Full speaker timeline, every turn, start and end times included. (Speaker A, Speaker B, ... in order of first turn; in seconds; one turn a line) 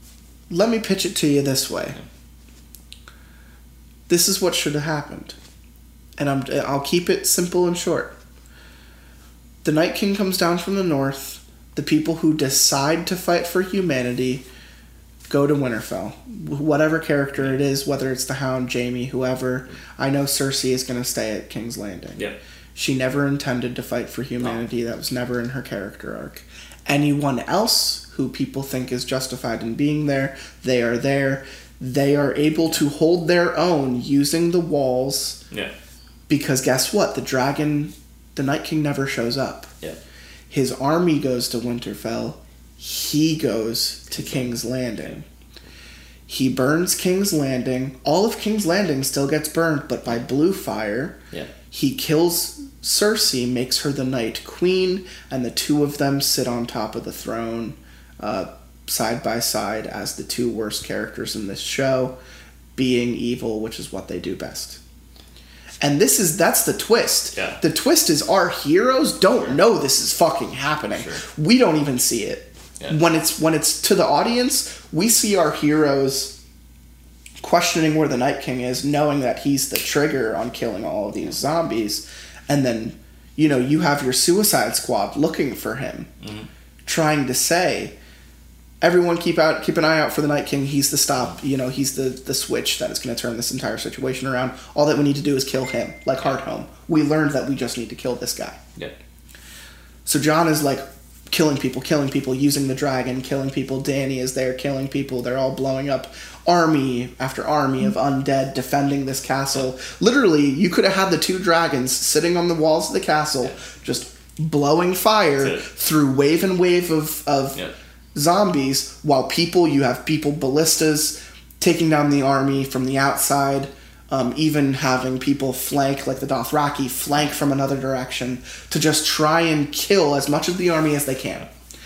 Speaker A: 0.5-2.0
Speaker A: 4.1-5.3
Speaker A: 6.2-8.2
Speaker A: 9.6-14.4
Speaker A: 15.3-22.2
Speaker A: 22.7-35.4
Speaker A: 36.3-39.7
Speaker A: 40.5-45.2
Speaker B: 44.1-45.2
Speaker A: 46.3-51.2
Speaker A: 51.7-62.2
Speaker A: 62.8-64.8
Speaker A: 65.8-76.4
Speaker B: 67.3-67.6
Speaker B: 70.9-71.2
Speaker A: 77.4-86.1
Speaker B: 86.2-86.5
Speaker A: 86.8-87.9
Speaker A: 88.8-98.6
Speaker A: 100.0-117.6
Speaker B: 115.4-115.7
Speaker A: 118.1-131.5